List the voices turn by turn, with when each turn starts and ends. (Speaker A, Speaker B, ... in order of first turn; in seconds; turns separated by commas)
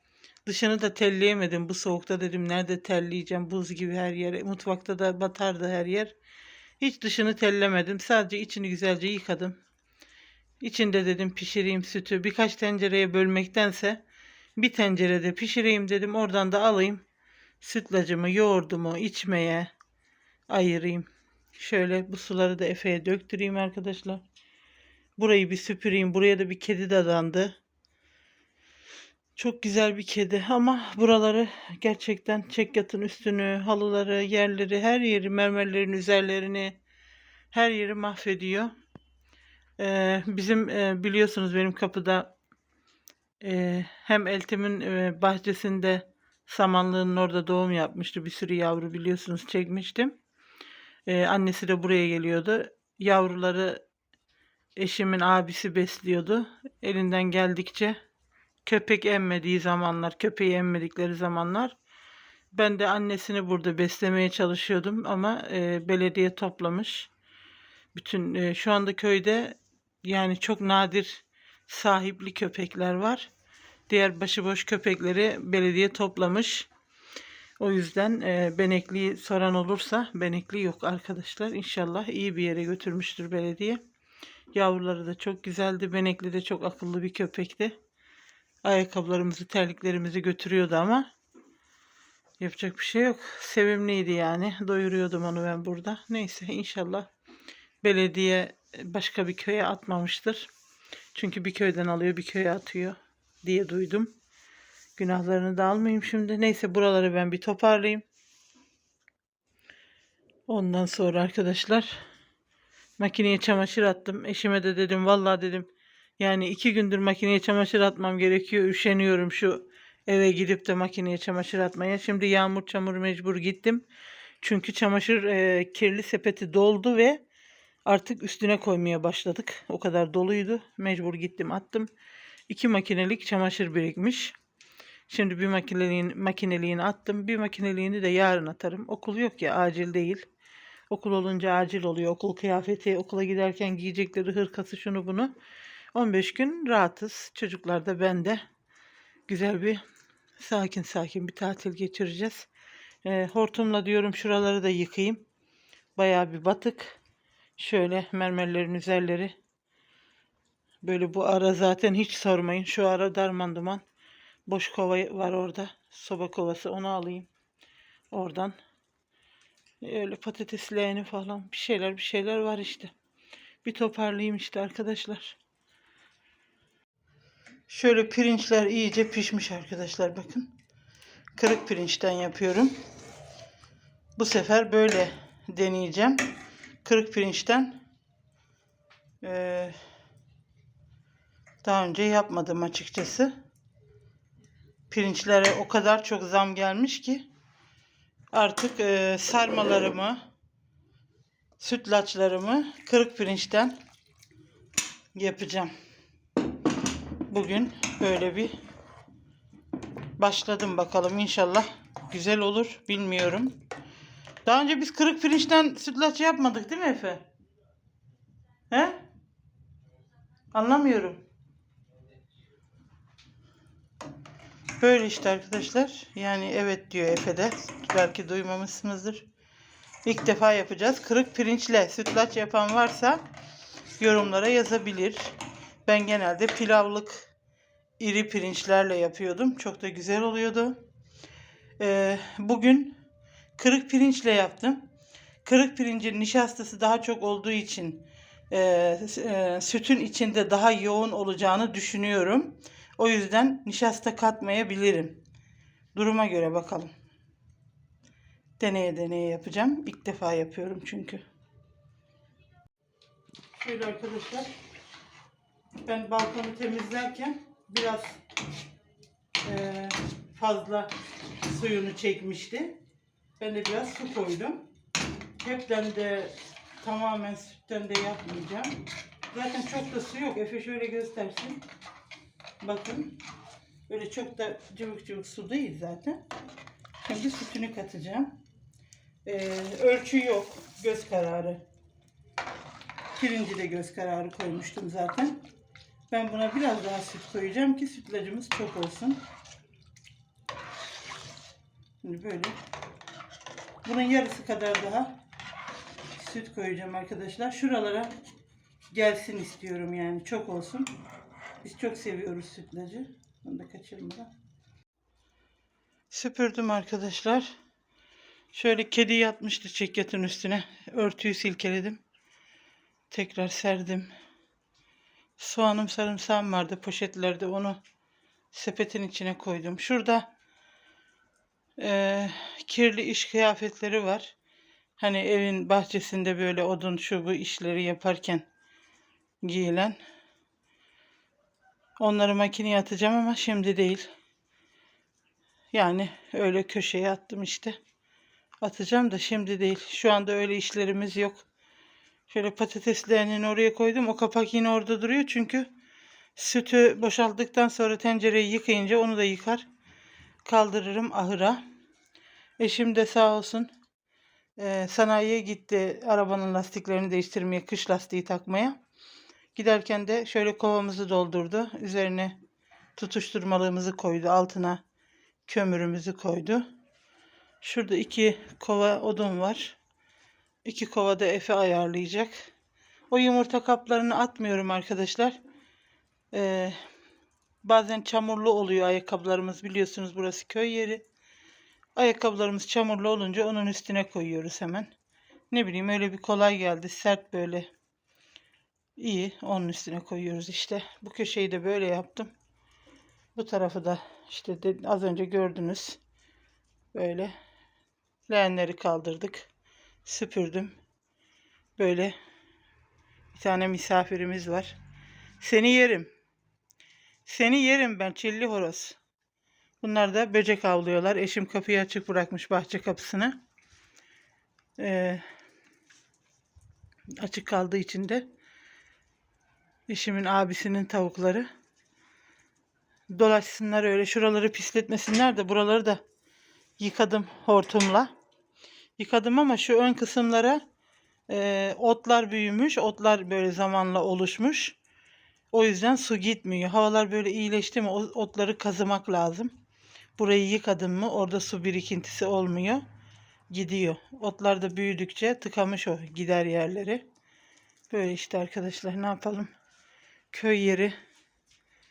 Speaker A: 0.5-6.1, Speaker A: 6.8-9.6, Speaker A: 10.6-14.0, Speaker A: 14.6-17.0, Speaker A: 17.6-19.7, Speaker A: 20.5-24.2, Speaker A: 25.2-27.6, Speaker A: 29.4-36.8, Speaker A: 37.5-38.7, Speaker A: 39.8-42.3, Speaker A: 43.4-50.2, Speaker A: 51.1-53.8, Speaker A: 54.8-58.0, Speaker A: 58.6-61.8, Speaker A: 62.5-67.1, Speaker A: 67.9-73.3, Speaker A: 73.9-76.7, Speaker A: 77.6-83.8, Speaker A: 84.5-87.7, Speaker A: 88.6-91.1, Speaker A: 92.4-97.1, Speaker A: 97.8-100.5, Speaker A: 101.1-104.1, Speaker A: 105.0-108.0, Speaker A: 110.5-112.0, Speaker A: 113.0-115.7, Speaker A: 116.2-123.8, Speaker A: 124.4-127.2, Speaker A: 127.8-131.9, Speaker A: 132.5-134.3, Speaker A: 135.1-140.2, Speaker A: 140.9-145.3, Speaker A: 145.9-148.4, Speaker A: 149.3-149.8, Speaker A: 150.4-152.5, Speaker A: 153.0-155.2, Speaker A: 155.9-157.0, Speaker A: 157.6-159.3, Speaker A: 160.8-163.8, Speaker A: 164.5-167.3, Speaker A: 168.1-168.5, Speaker A: 169.8-172.9, Speaker A: 173.6-175.4, Speaker A: 177.7-180.5, Speaker A: 181.3-182.7, Speaker A: 184.2-186.2, Speaker A: 186.8-187.8, Speaker A: 189.2-189.8, Speaker A: 191.6-193.3, Speaker A: 194.9-197.2, Speaker A: 198.3-200.2, Speaker A: 201.6-203.7, Speaker A: 205.1-205.7, Speaker A: 207.3-208.5, Speaker A: 210.2-213.6, Speaker A: 214.4-217.3, Speaker A: 218.7-219.0, Speaker A: 220.5-221.2, Speaker A: 224.8-229.3, Speaker A: 230.0-233.2, Speaker A: 234.0-235.3, Speaker A: 235.9-237.3, Speaker A: 238.0-240.8, Speaker A: 241.8-243.0, Speaker A: 243.6-244.9, Speaker A: 245.4-255.2, Speaker A: 255.9-256.9, Speaker A: 258.6-261.2, Speaker A: 263.6-264.5, Speaker A: 265.8-268.2, Speaker A: 269.4-270.9, Speaker A: 271.4-272.8, Speaker A: 273.4-274.6, Speaker A: 275.4-278.8, Speaker A: 279.3-281.6, Speaker A: 282.6-283.1, Speaker A: 283.9-286.2, Speaker A: 287.0-288.4, Speaker A: 289.2-291.6, Speaker A: 293.2-295.4, Speaker A: 296.1-299.2, Speaker A: 302.0-302.6, Speaker A: 303.8-305.1, Speaker A: 306.1-308.1, Speaker A: 308.9-310.9, Speaker A: 311.6-314.3, Speaker A: 316.1-317.5, Speaker A: 318.5-322.0, Speaker A: 323.1-324.1, Speaker A: 325.4-327.8, Speaker A: 328.5-330.3, Speaker A: 331.8-334.3, Speaker A: 335.0-338.4, Speaker A: 339.4-340.0, Speaker A: 342.0-344.1, Speaker A: 345.7-347.8, Speaker A: 348.6-351.4, Speaker A: 352.3-355.7, Speaker A: 356.4-359.6, Speaker A: 360.4-361.6, Speaker A: 362.6-363.7, Speaker A: 364.6-368.8, Speaker A: 369.5-372.4, Speaker A: 372.9-374.8, Speaker A: 375.4-376.6, Speaker A: 377.6-379.8, Speaker A: 380.6-382.5, Speaker A: 383.1-385.4, Speaker A: 386.3-386.8, Speaker A: 387.6-391.0, Speaker A: 391.9-394.9, Speaker A: 395.5-397.7, Speaker A: 399.0-402.3, Speaker A: 403.4-406.0, Speaker A: 406.9-407.3, Speaker A: 408.3-409.5, Speaker A: 410.0-410.8, Speaker A: 411.8-412.1, Speaker A: 413.3-414.8, Speaker A: 415.4-416.1, Speaker A: 417.2-419.0, Speaker A: 419.8-423.4, Speaker A: 424.8-425.2, Speaker A: 427.2-428.3, Speaker A: 429.9-431.5, Speaker A: 433.1-436.0, Speaker A: 436.8-438.1, Speaker A: 439.0-440.6, Speaker A: 441.3-444.8, Speaker A: 445.5-449.5, Speaker A: 450.2-452.8, Speaker A: 453.5-457.0, Speaker A: 457.9-459.5, Speaker A: 460.3-460.9